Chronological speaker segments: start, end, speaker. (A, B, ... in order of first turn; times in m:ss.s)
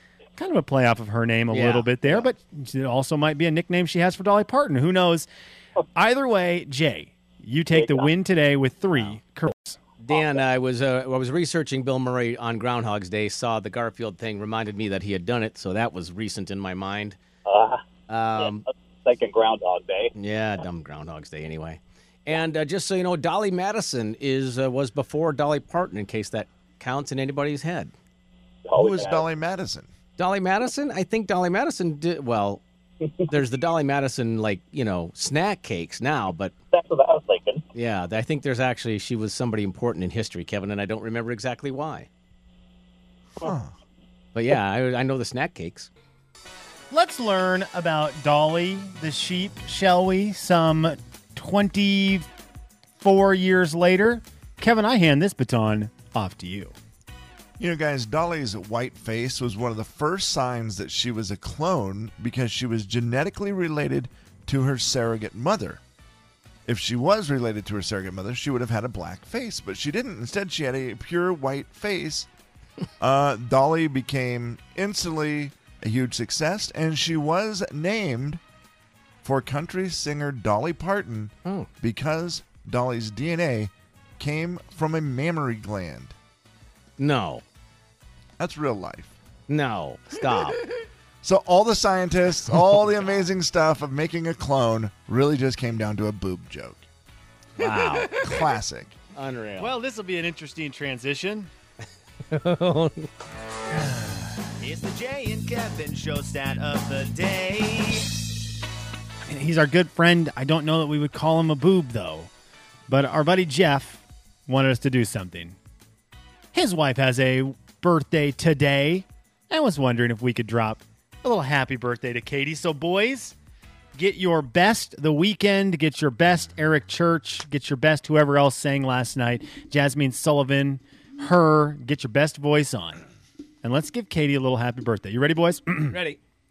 0:00.4-0:05.3 A
0:01.5-0:02.3 B
0:05.9-0:09.8 A
0:07.7-0:08.1 C
0:10.0-0:17.2 B
0:17.4-0:17.8 C
0:18.1-0:18.6 B
0:18.4-0:20.1 C
0:20.1-0:27.9 B
0:28.6-0:29.2 C
0:28.7-0:29.9 D
0:30.2-0:32.6 B
0:33.3-0:36.5 B
0:36.7-0:37.6 C
0:37.7-0:42.1 B
0:43.4-0:43.7 D
0:44.3-0:45.9 B
0:46.9-0:52.3 A
0:53.0-0:56.7 A
0:57.6-1:05.8 D
1:06.6-1:12.3 D
1:13.0-1:18.4 D
1:19.2-1:26.1 D
1:21.4-1:21.7 B
1:27.0-1:27.4 B
1:28.4-1:29.1 D
1:29.5-1:30.6 B
1:31.2-1:36.9 D
1:37.6-1:38.2 B
1:38.1-1:39.0 D
1:39.1-1:39.7 B
1:39.6-1:41.5 A
1:42.3-1:43.1 B
1:44.6-1:48.1 A
1:49.2-1:52.3 A
1:52.9-1:55.6 A
1:56.5-2:03.3 A
2:03.9-2:13.0 A
2:13.6-2:16.0 A
2:15.9-2:16.2 B